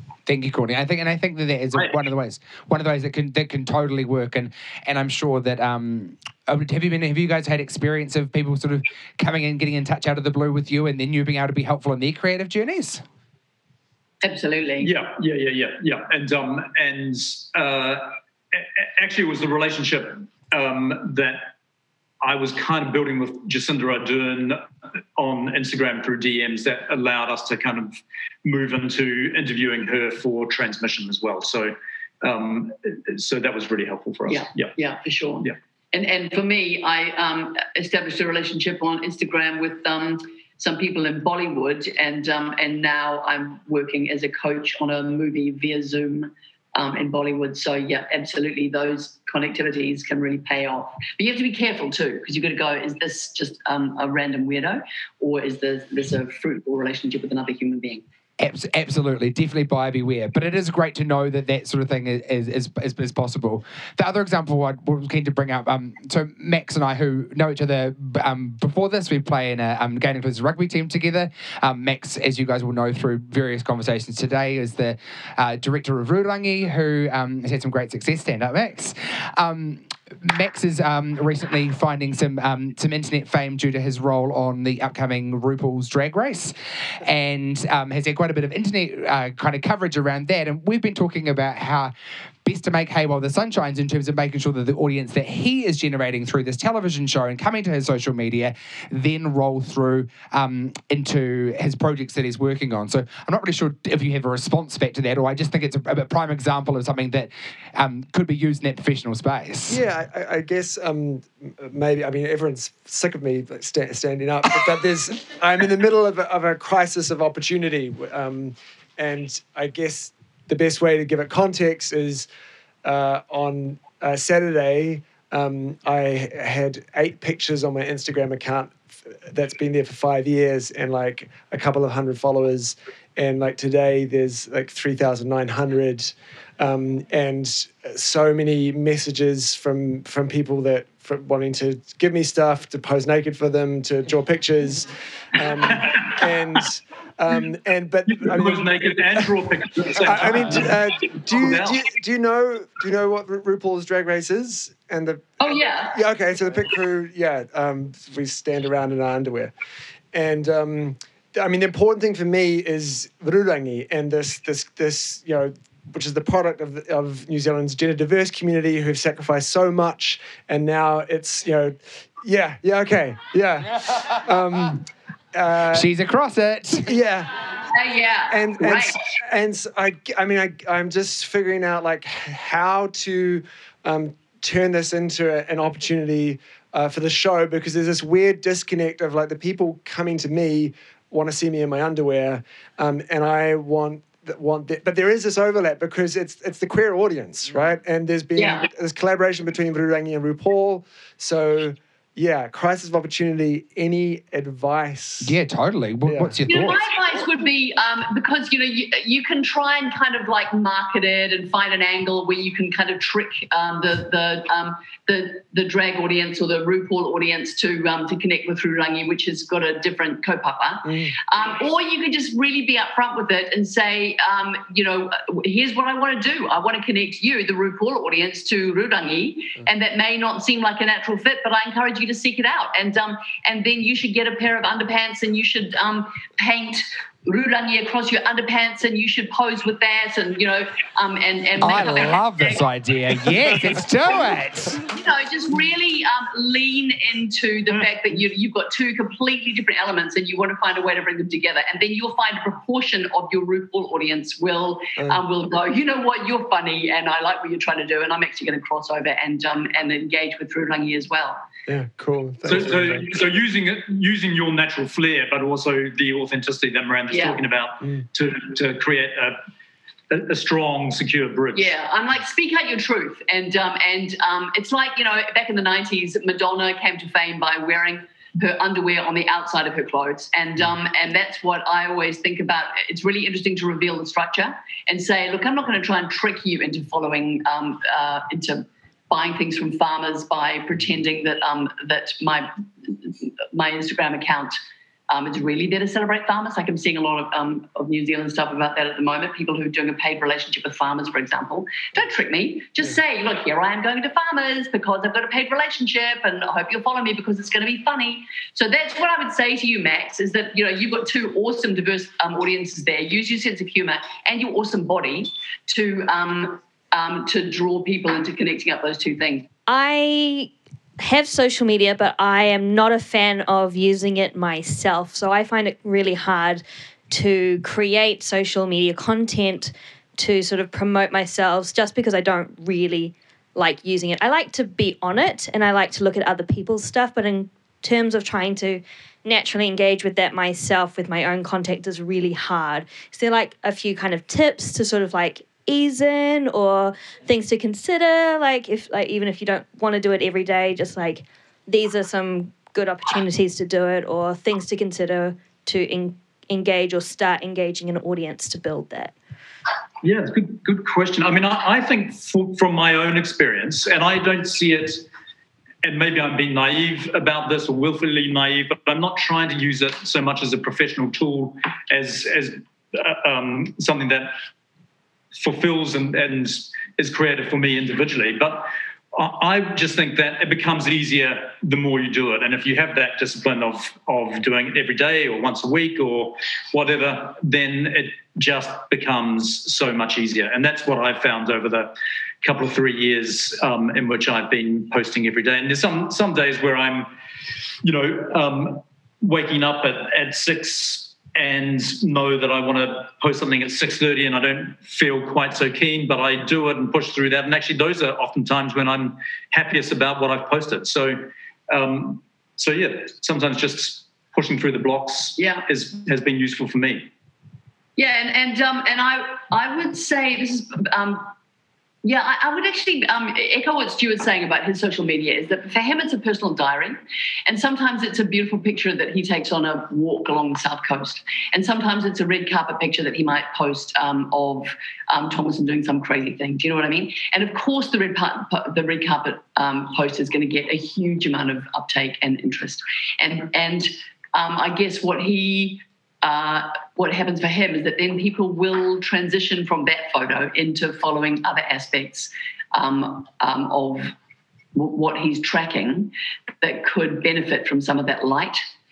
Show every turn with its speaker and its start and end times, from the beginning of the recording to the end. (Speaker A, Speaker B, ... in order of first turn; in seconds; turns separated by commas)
Speaker A: 0.3-13.0, Speaker B: 14.2-14.9, Speaker C: 14.8-21.5, Speaker C: 22.2-24.6, Speaker C: 25.2-34.8, Speaker B: 34.3-58.0, Speaker A: 58.4-91.9, Speaker A: 92.5-109.8, Speaker D: 109.7-122.3, Speaker D: 122.8-149.3, Speaker C: 145.8-146.2, Speaker C: 148.1-151.9, Speaker D: 149.9-159.5, Speaker B: 155.4-156.0, Speaker D: 160.1-175.9, Speaker A: 175.7-176.9, Speaker D: 176.8-177.3, Speaker B: 177.7-179.0, Speaker D: 178.3-205.4, Speaker B: 198.3-198.7, Speaker A: 205.2-206.8, Speaker D: 206.1-206.4, Speaker B: 206.5-242.6, Speaker D: 220.8-221.2, Speaker A: 241.6-244.8, Speaker B: 244.8-261.4, Speaker D: 261.7-263.1, Speaker C: 262.5-269.4, Speaker B: 267.1-267.4, Speaker C: 270.1-271.7, Speaker B: 271.5-294.6, Speaker B: 295.1-319.5, Speaker E: 319.7-359.1, Speaker C: 360.0-365.1, Speaker C: 365.8-374.3, Speaker C: 375.4-397.1, Speaker C: 397.8-417.1, Speaker B: 415.4-415.6, Speaker B: 418.0-421.3, Speaker B: 422.0-454.1, Speaker B: 454.8-458.6